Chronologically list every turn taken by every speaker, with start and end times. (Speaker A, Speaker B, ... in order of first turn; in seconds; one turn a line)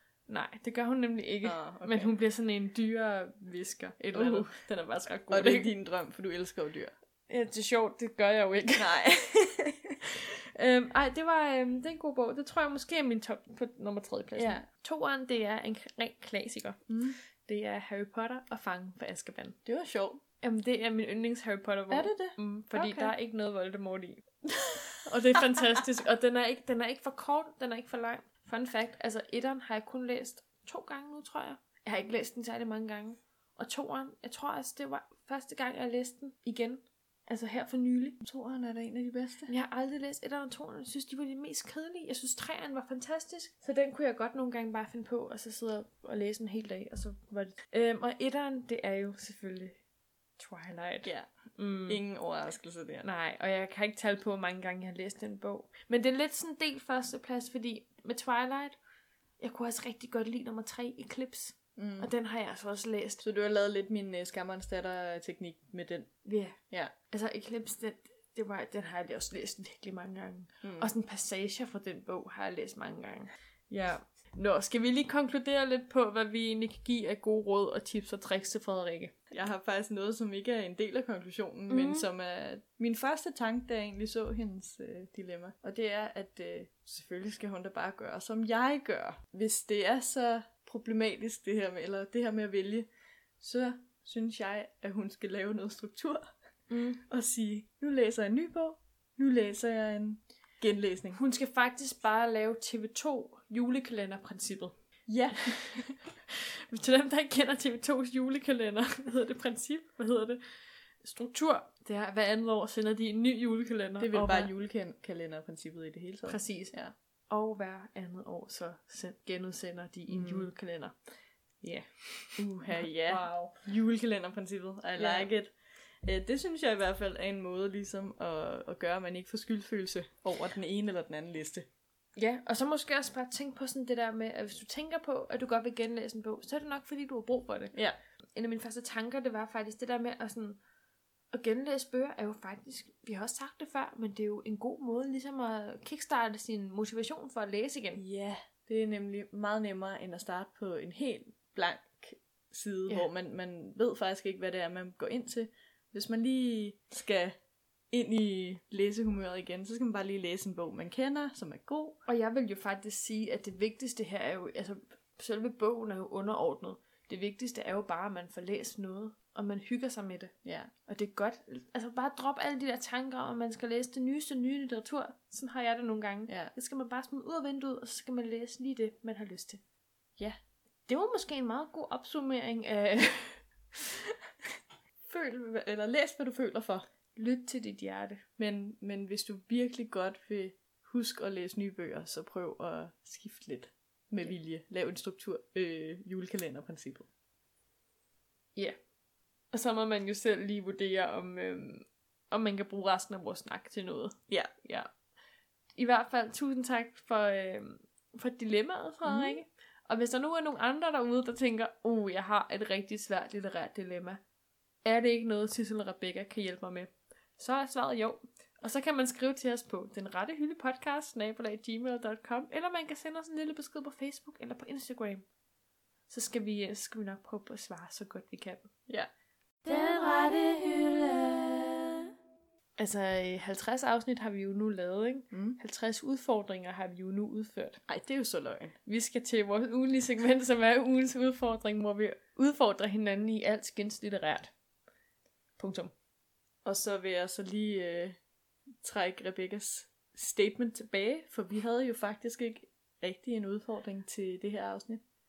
Speaker A: 0.3-5.7
Speaker B: 1.4-2.1
Speaker B: 4.1-4.5
Speaker B: 5.3-6.9
Speaker A: 7.3-9.1
Speaker B: 8.8-10.0
Speaker A: 10.1-16.8
Speaker B: 14.3-14.7
Speaker B: 16.9-17.2
Speaker A: 17.4-19.6
Speaker B: 19.6-20.2
Speaker A: 20.4-24.2
Speaker B: 21.9-23.1
Speaker B: 24.5-25.4
Speaker A: 25.0-38.2
Speaker B: 38.2-39.5
Speaker A: 39.5-49.8
Speaker A: 50.4-52.0
Speaker B: 51.0-51.3
Speaker B: 51.9-53.0
Speaker A: 53.0-58.8
Speaker A: 59.4-63.2
Speaker B: 61.8-62.1
Speaker B: 63.2-66.1
Speaker A: 66.2-66.6
Speaker A: 67.1-79.1
Speaker B: 70.6-70.9
Speaker B: 79.3-92.9
Speaker A: 81.7-82.1
Speaker B: 93.4-96.3
Speaker A: 96.7-97.0
Speaker B: 97.0-101.2
Speaker A: 101.1-104.7
Speaker B: 105.1-106.0
Speaker A: 105.3-110.4
Speaker A: 111.0-114.5
Speaker B: 114.0-116.9
Speaker A: 116.2-116.7
Speaker A: 117.3-121.0
Speaker B: 120.1-120.5
Speaker A: 121.6-123.6
Speaker B: 122.4-131.7
Speaker A: 125.0-125.3
Speaker A: 132.2-137.7
Speaker A: 138.3-140.6
Speaker A: 141.3-148.0
Speaker B: 148.0-157.3
Speaker B: 157.9-162.0
Speaker A: 162.1-170.3
Speaker B: 170.4-170.7
Speaker A: 170.8-179.6
Speaker A: 180.9-184.0
Speaker B: 185.1-186.8
Speaker A: 187.2-188.2
Speaker B: 188.4-197.1
Speaker A: 199.5-204.9
Speaker A: 205.8-214.2
Speaker B: 209.0-209.4
Speaker A: 214.8-225.2
Speaker A: 226.1-228.7
Speaker B: 229.7-232.1
Speaker A: 229.7-230.3
Speaker A: 232.8-237.8
Speaker B: 235.3-235.6
Speaker B: 237.9-238.7
Speaker A: 238.8-244.5
Speaker A: 245.6-245.9
Speaker B: 246.6-248.2
Speaker B: 248.8-255.0